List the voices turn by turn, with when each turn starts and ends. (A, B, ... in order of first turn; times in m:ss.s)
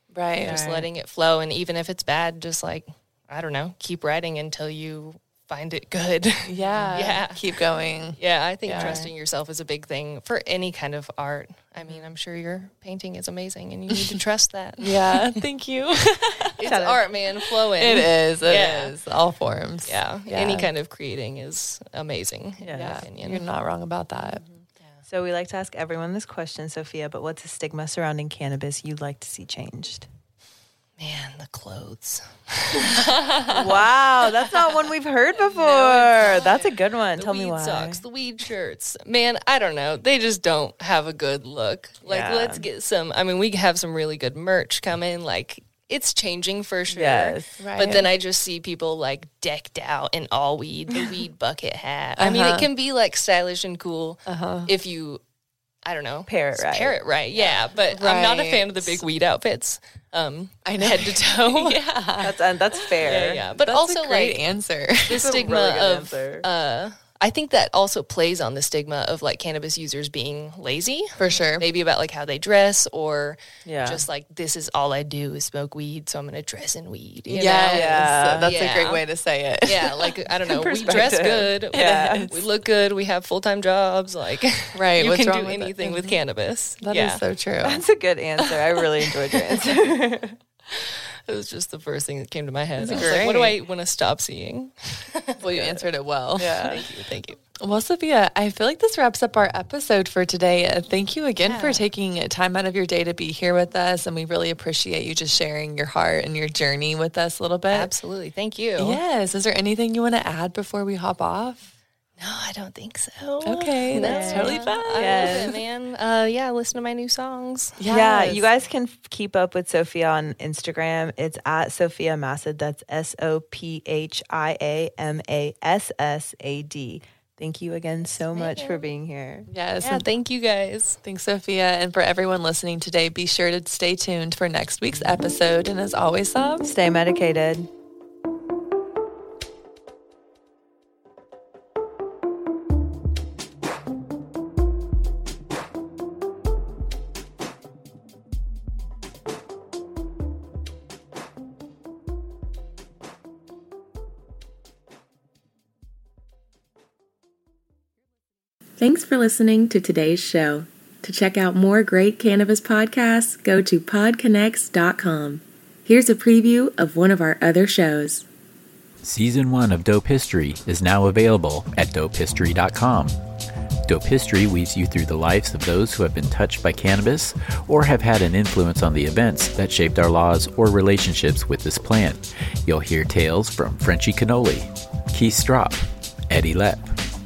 0:00.1-0:00.6 A
0:00.4-0:07.4 B
0:00.4-0:00.9 C
0:06.5-0:09.0 A
0:06.7-0:07.0 C
0:08.2-0:15.4 B
0:08.7-0:09.1 C
0:13.9-0:14.2 A
0:14.8-0:16.6 A
0:16.6-0:18.9 B
0:16.6-0:17.1 C
0:17.5-0:20.7 A
0:19.8-0:23.4 B
0:22.6-0:23.0 C
0:22.7-0:24.4 A
0:25.1-0:30.1 C
0:31.0-0:34.7 B
0:32.9-0:33.8 A
0:33.5-0:38.0 C
0:35.4-0:36.6 B
0:36.2-0:36.7 A
0:37.2-0:55.2 B
0:42.0-0:42.6 C
0:46.9-0:47.5 C
0:47.6-0:48.1 A
0:52.2-0:52.7 A
0:54.3-0:54.7 A
0:55.8-1:01.8 B
0:56.3-0:57.0 C
0:57.9-0:59.0 A
1:00.6-1:02.9 A
1:02.2-1:03.4 C
1:03.0-1:04.4 B
1:03.6-1:05.2 A
1:05.1-1:19.0 B
1:05.1-1:06.4 C
1:11.2-1:11.6 A
1:13.6-1:14.0 C
1:17.3-1:20.2 A
1:17.7-1:18.6 C
1:19.6-1:27.2 B
1:20.4-1:22.3 C
1:21.7-1:22.4 A
1:24.7-1:26.2 A
1:26.8-1:27.8 A
1:27.6-1:30.4 C
1:28.4-1:29.6 A
1:31.3-1:35.7 B
1:32.8-1:33.6 C
1:32.8-1:33.4 A
1:35.4-1:36.8 A
1:36.4-1:36.8 C
1:36.6-1:37.4 B
1:37.6-1:47.9 A
1:41.4-1:41.8 B
1:47.7-1:49.0 B
1:48.8-1:51.7 A
1:52.2-1:57.8 B
1:53.4-1:55.5 A
1:54.0-1:55.6 C
1:57.8-1:58.5 A
1:57.9-2:09.5 C
2:08.3-2:08.8 B
2:09.5-2:10.1 A
2:09.8-2:11.0 B
2:11.0-2:16.7 A
2:16.6-2:17.7 C
2:38.8-2:48.2 D
2:49.0-2:53.2 E
2:53.9-3:06.9 E